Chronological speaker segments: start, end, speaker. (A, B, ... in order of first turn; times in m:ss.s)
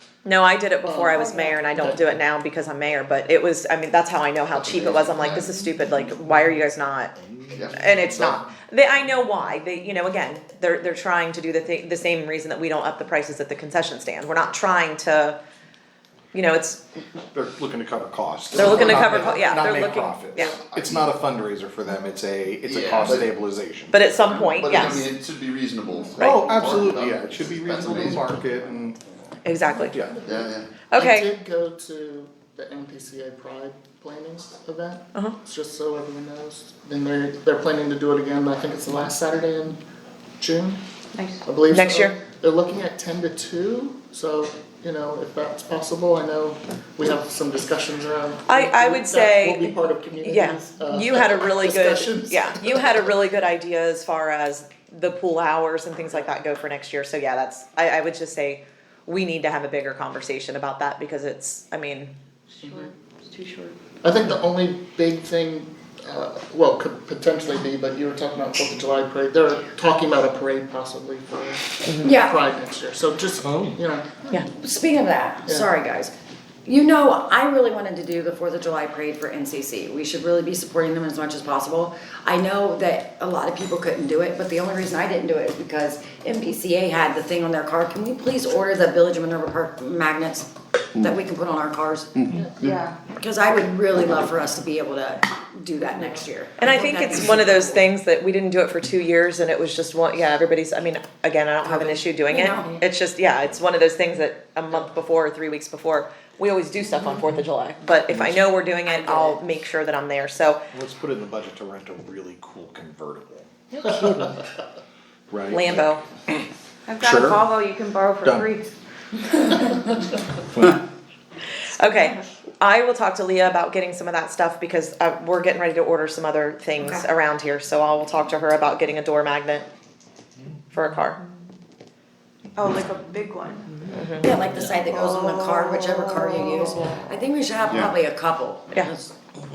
0:00.2-0:15.4 A
0:00.8-0:01.2 B
0:01.2-0:01.8 C
0:01.8-0:02.2 B
0:04.5-0:05.6 D
0:07.2-0:07.8 E
0:07.5-0:08.4 D
0:16.3-0:16.8 A
0:17.3-0:24.0 E
0:18.5-0:20.6 A
0:18.6-0:19.6 D
0:20.4-0:21.2 D
0:22.6-0:23.4 D
0:23.9-0:25.1 A
0:24.3-0:28.5 D
0:26.2-0:29.0 E
0:26.2-0:26.5 A
0:29.4-0:30.0 A
0:29.7-0:39.8 B
0:29.9-0:30.2 E
0:30.3-0:30.7 D
0:30.9-0:31.3 A
0:40.4-0:40.8 B
0:41.4-0:53.1 B
0:41.7-0:42.1 A
0:48.5-1:02.1 A
1:02.6-1:02.9 B
1:02.7-1:03.7 F
1:04.0-1:14.5 B
1:12.0-1:12.4 C
1:13.4-1:13.7 E
1:14.6-1:32.2 C
1:15.5-1:15.7 B
1:32.2-1:32.8 D
1:32.3-1:32.6 B
1:32.6-1:33.0 F
1:33.1-1:37.8 C
1:35.9-1:36.2 B
1:36.6-1:50.6 A
1:41.7-1:42.7 C
1:42.4-1:42.8 B
1:48.1-1:48.4 E
1:48.9-1:49.4 C
1:50.7-1:54.4 E
1:55.3-1:56.4 E
1:55.5-1:56.0 A
1:56.9-1:58.7 F
1:57.0-1:57.5 E
1:58.2-1:58.5 E
2:00.5-2:00.8 E
2:01.6-2:09.7 A
2:06.8-2:07.1 C
2:10.7-2:11.2 A
2:12.6-2:13.6 F
2:13.9-2:14.3 A
2:14.2-2:19.1 C
2:14.5-2:15.0 B
2:15.0-2:16.8 F